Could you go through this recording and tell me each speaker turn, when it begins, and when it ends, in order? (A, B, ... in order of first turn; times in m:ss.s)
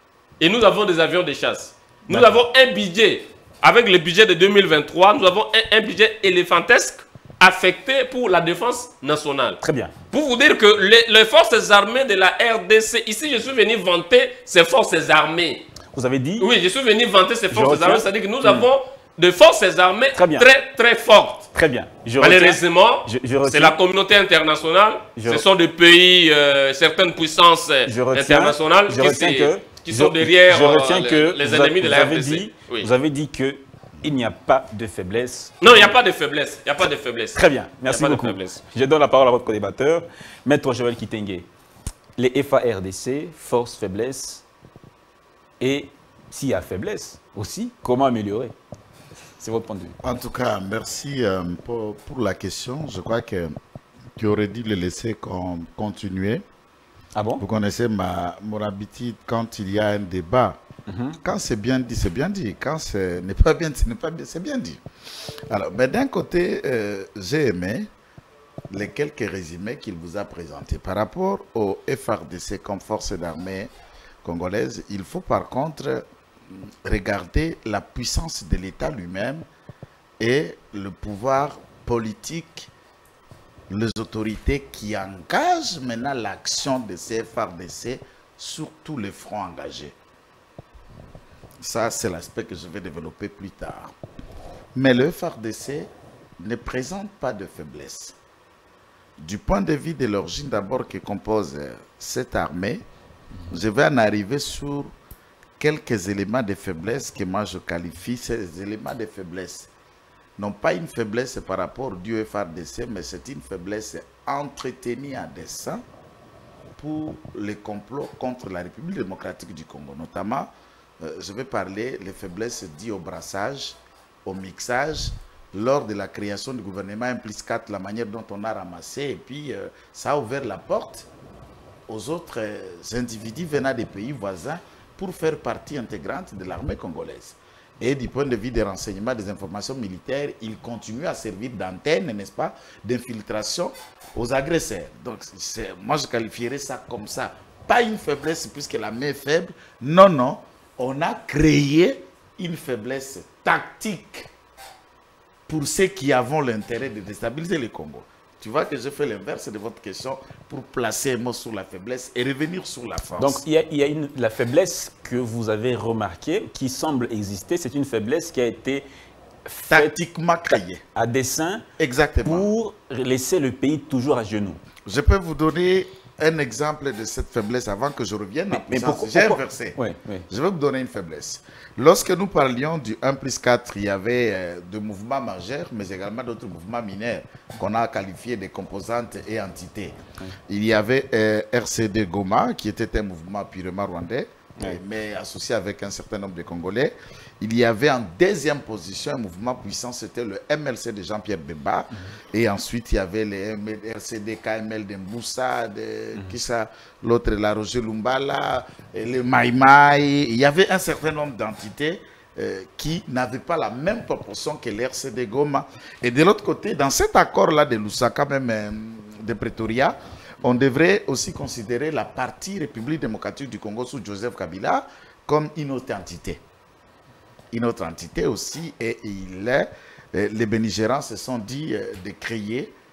0:00.4-0:15.6 A
0:02.1-0:02.3 B
0:09.6-0:09.9 B
0:15.9-0:16.5 B
0:16.4-0:21.5 A
0:17.5-0:18.7 B
0:20.1-0:20.5 B
0:21.5-0:23.8 B
0:22.2-0:32.9 A
0:25.2-0:25.4 B
0:27.8-0:35.9 B
0:35.6-0:38.6 A
0:37.3-0:41.5 B
0:42.2-0:44.4 B
0:45.6-0:48.5 B
0:49.4-0:50.0 B
0:50.0-0:53.6 C
0:54.2-0:56.4 C
0:57.1-0:57.4 B
0:57.4-1:00.6 C
1:00.9-1:01.2 B
1:01.2-1:04.8 C
1:05.5-1:07.9 C
1:08.7-1:13.7 C
1:14.2-1:19.5 C
1:20.2-1:22.7 C
1:23.7-1:29.9 C
1:31.6-1:33.9 C
1:34.7-1:38.2 C
1:39.2-1:42.8 C
1:43.5-1:44.9 C
1:45.6-1:49.7 C
1:50.4-1:55.8 C
1:56.8-2:11.1 C
2:11.9-2:34.3 C
2:35.5-2:43.4 C
2:43.2-2:48.9 B
2:49.4-2:49.9 B
2:49.7-2:50.8 C
2:50.9-2:51.6 B
2:51.8-2:52.5 C
2:52.2-2:54.6 B
2:54.8-3:10.0 C
2:58.5-3:00.3 B
3:10.5-3:46.4 C
3:47.5-3:52.8 C